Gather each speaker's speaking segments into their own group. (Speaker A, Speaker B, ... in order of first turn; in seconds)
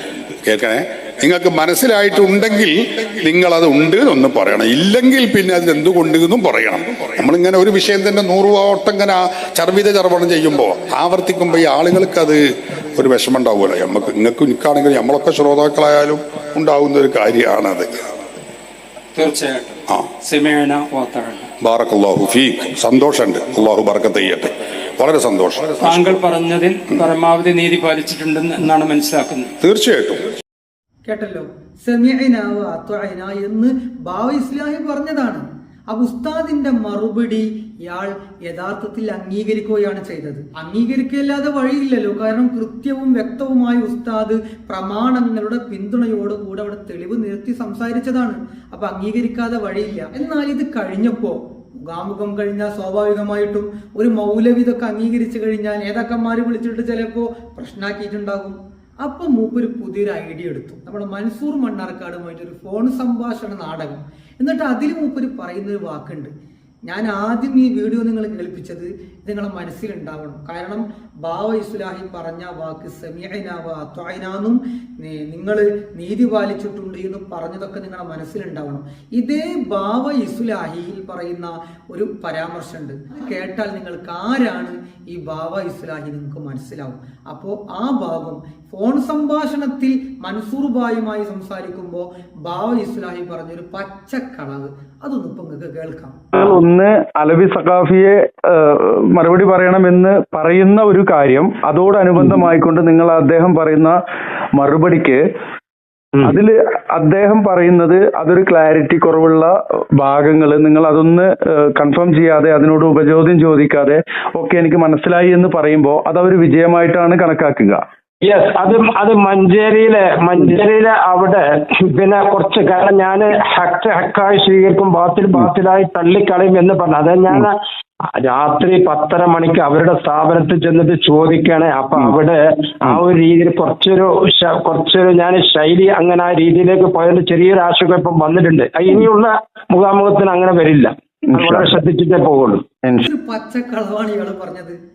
Speaker A: 0.5-18.1, 21.6-26.1, 29.6-30.2
Speaker B: 19.1-21.5, 25.8-29.5
Speaker C: 31.1-66.3, 66.9-96.2, 143.1-144.8
Speaker D: 96.3-104.0, 104.6-105.2, 106.2-117.8, 141.4-141.7
Speaker E: 118.2-127.6, 128.1-142.6